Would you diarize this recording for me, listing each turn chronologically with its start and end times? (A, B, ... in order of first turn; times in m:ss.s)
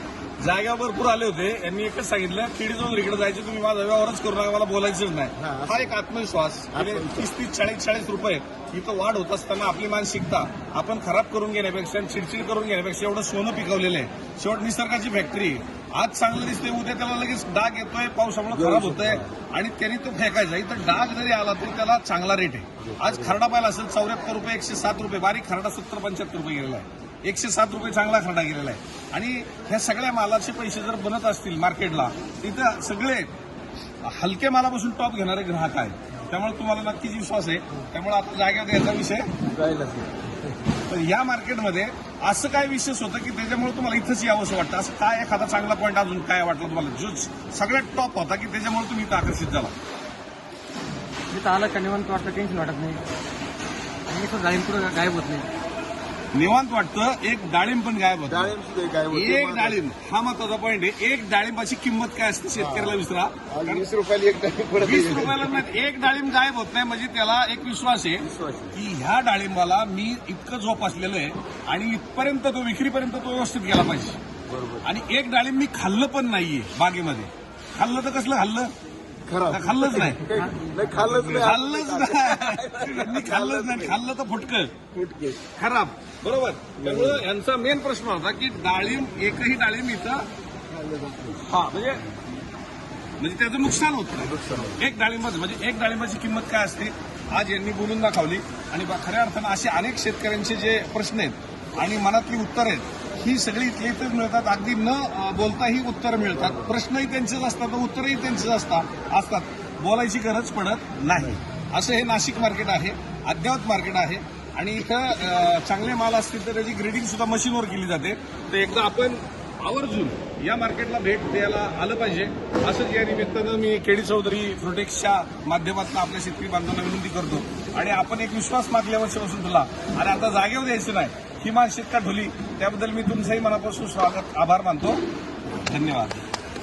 0:00.4-0:33.3 A
0:05.4-0:05.9 B
0:06.7-0:07.3 B
0:18.5-0:19.3 B
0:22.8-0:23.4 B
0:34.0-0:39.3 A
0:39.4-0:40.1 B
0:40.9-0:49.7 A
0:51.3-0:53.0 C
0:54.1-0:55.5 C
0:56.3-0:58.5 A
0:58.3-0:59.8 B
0:59.1-1:03.9 A
1:02.6-1:05.6 B
1:04.8-1:14.2 A
1:08.2-1:08.8 B
1:14.5-1:14.9 B
1:14.8-1:18.7 A
1:19.3-1:24.0 B
1:19.5-1:20.2 A
1:21.0-1:24.7 A
1:24.9-1:25.4 B
1:25.6-1:30.3 A
1:26.8-1:27.2 B
1:30.7-1:31.4 B
1:31.4-1:32.0 A
1:33.2-2:15.0 A
1:34.2-1:34.8 B
1:46.4-1:46.7 B
2:15.6-2:16.2 A